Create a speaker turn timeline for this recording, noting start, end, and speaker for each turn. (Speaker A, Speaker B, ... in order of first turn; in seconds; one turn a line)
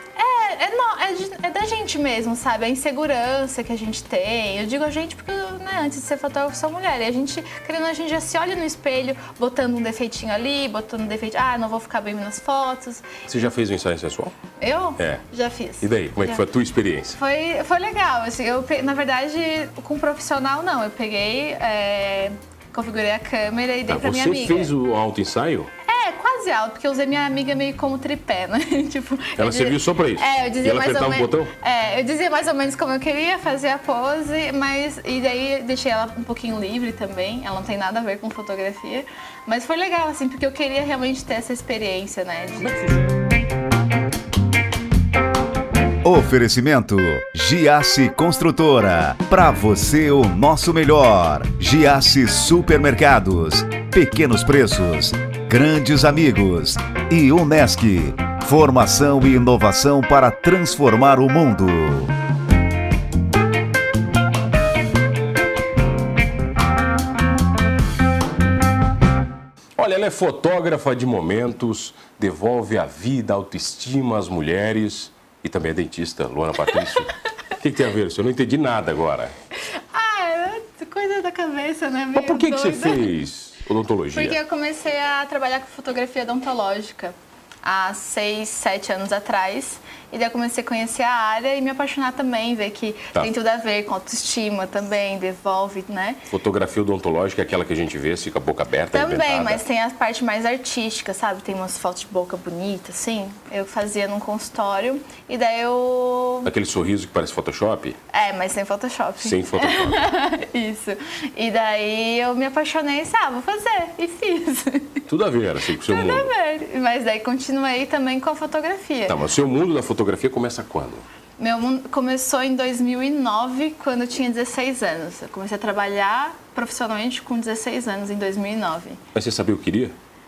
Speaker A: 0.2-13.3
Speaker B: 13.3-14.4
Speaker A: 14.6-16.4
Speaker B: 15.0-15.2
Speaker B: 15.8-17.2
Speaker A: 17.2-24.7
Speaker B: 23.9-25.7
Speaker A: 25.8-42.9
Speaker B: 29.4-31.5
Speaker C: 46.0-62.1
Speaker B: 69.8-79.3
Speaker A: 79.6-83.1
Speaker B: 82.2-84.4
Speaker A: 84.1-96.2
Speaker B: 96.3-99.6
Speaker A: 98.9-106.5
Speaker B: 106.5-108.0
Speaker A: 108.1-115.1
Speaker B: 109.2-110.0
Speaker B: 115.1-116.3
Speaker A: 115.8-119.2
Speaker B: 119.1-121.0
Speaker A: 121.4-129.0
Speaker B: 129.1-129.9